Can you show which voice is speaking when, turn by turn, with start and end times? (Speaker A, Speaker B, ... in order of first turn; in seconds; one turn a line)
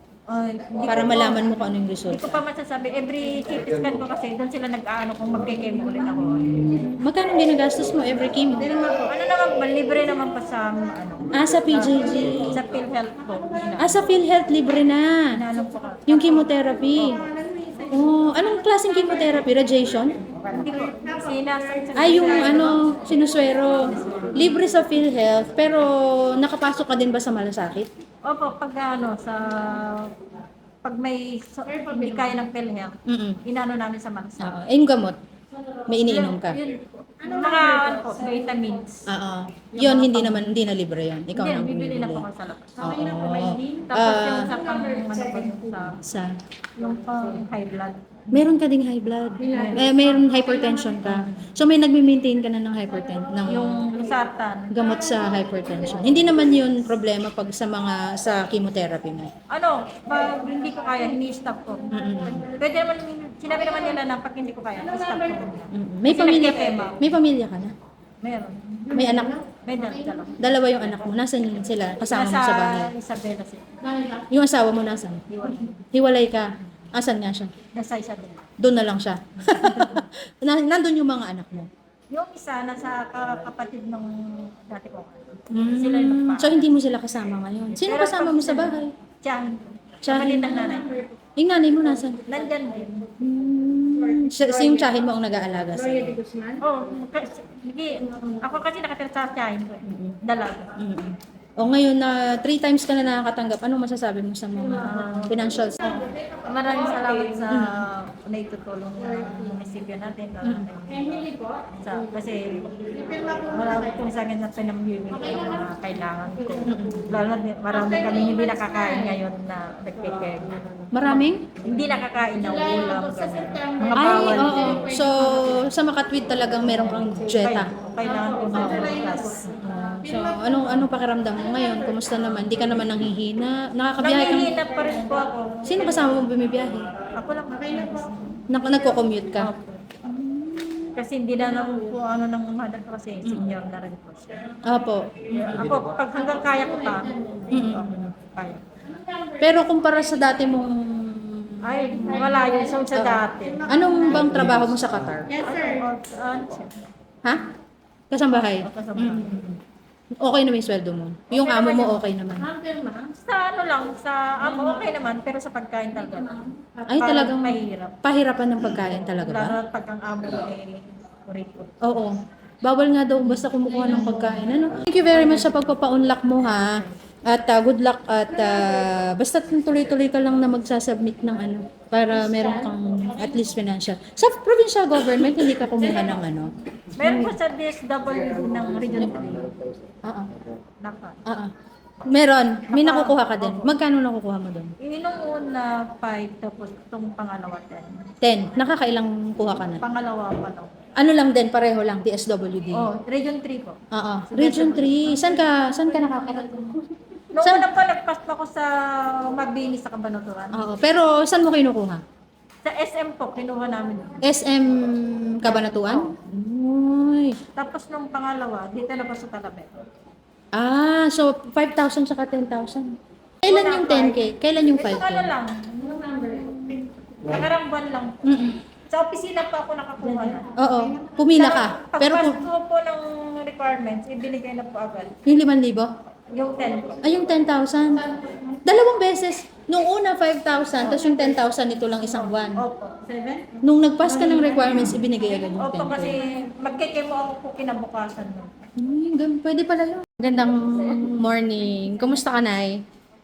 Speaker A: 0.3-1.4
Speaker B: 0.9-2.4
Speaker A: 2.1-6.6
Speaker B: 6.6-8.8
Speaker A: 8.9-13.9
Speaker B: 11.3-12.6
Speaker B: 13.8-15.3
Speaker A: 15.4-16.5
Speaker B: 16.1-17.2
Speaker B: 17.9-20.1
Speaker A: 20.5-22.9
Speaker B: 22.0-27.9
Speaker A: 23.8-24.6
Speaker A: 28.2-30.1
Speaker A: 30.8-34.5
Speaker B: 33.1-33.4
Speaker B: 34.4-35.2
Speaker B: 35.9-36.6
Speaker A: 36.0-39.1
Speaker B: 39.1-42.3
Speaker A: 39.8-40.4
Speaker A: 41.3-42.9
Speaker B: 42.8-44.6
Speaker A: 43.9-46.0
Speaker B: 46.0-46.3
Speaker A: 46.8-48.2
Speaker B: 48.3-53.9
Speaker A: 53.5-54.7
Speaker B: 54.7-59.3
Speaker A: 59.5-67.1
Speaker B: 61.9-62.5
Speaker B: 65.7-67.7
Speaker A: 68.2-70.5
Speaker B: 68.9-69.4
Speaker B: 70.4-72.9
Speaker A: 72.1-73.7
Speaker B: 74.1-75.2
Speaker A: 75.3-75.8
Speaker B: 75.9-77.5
Speaker A: 77.7-78.5
Speaker B: 78.6-81.7
Speaker A: 79.6-80.0
Speaker A: 82.1-85.2
Speaker B: 85.5-88.9
Speaker A: 85.8-86.6
Speaker A: 87.8-91.0
Speaker B: 90.0-92.2
Speaker A: 92.3-93.1
Speaker B: 93.2-96.5
Speaker A: 96.6-100.7
Speaker B: 99.9-100.2
Speaker B: 100.8-105.8
Speaker A: 104.8-120.5
Speaker B: 107.5-107.8
Speaker B: 116.7-117.1
Speaker B: 120.9-121.5
Speaker A: 121.6-124.8
Speaker B: 124.0-127.7
Speaker A: 127.3-129.5
Speaker B: 128.5-129.0
Speaker B: 129.5-134.5
Speaker A: 134.0-136.1
Speaker B: 135.6-136.9
Speaker A: 137.2-138.4
Speaker B: 138.5-139.5
Speaker A: 139.4-139.9
Speaker B: 140.1-140.9
Speaker A: 141.0-144.3
Speaker B: 143.2-143.5
Speaker B: 144.7-145.7
Speaker A: 145.3-148.6
Speaker B: 147.5-148.1
Speaker B: 149.4-152.2
Speaker A: 151.6-153.7
Speaker B: 152.9-155.3
Speaker A: 155.4-156.7
Speaker B: 158.1-159.6
Speaker A: 158.4-159.3
Speaker B: 160.2-162.5
Speaker A: 161.3-162.0
Speaker A: 163.1-168.0
Speaker B: 166.9-169.6
Speaker A: 169.1-171.7
Speaker B: 171.8-187.3
Speaker A: 187.0-189.6
Speaker B: 190.1-190.3
Speaker A: 190.8-191.2
Speaker B: 192.1-194.7
Speaker A: 192.7-193.7
Speaker A: 194.8-198.1
Speaker B: 198.2-199.8
Speaker A: 199.8-200.7
Speaker B: 201.0-202.9
Speaker A: 202.7-203.8
Speaker B: 203.9-206.9
Speaker A: 204.3-205.2
Speaker A: 207.3-210.6
Speaker B: 207.4-207.7
Speaker B: 210.6-212.0
Speaker A: 212.6-214.2
Speaker B: 214.2-217.4
Speaker A: 215.5-216.1
Speaker A: 217.6-219.7
Speaker B: 220.6-222.9
Speaker B: 223.4-225.3
Speaker A: 223.4-224.2
Speaker A: 224.8-228.1
Speaker B: 228.2-228.6
Speaker A: 228.9-230.5
Speaker B: 230.6-232.4
Speaker A: 231.3-235.1
Speaker B: 235.3-235.9
Speaker A: 236.3-237.0
Speaker B: 237.0-238.1
Speaker B: 238.7-242.6
Speaker A: 242.0-243.6
Speaker B: 243.6-246.2
Speaker A: 244.2-245.0
Speaker A: 245.6-248.5
Speaker B: 248.8-252.8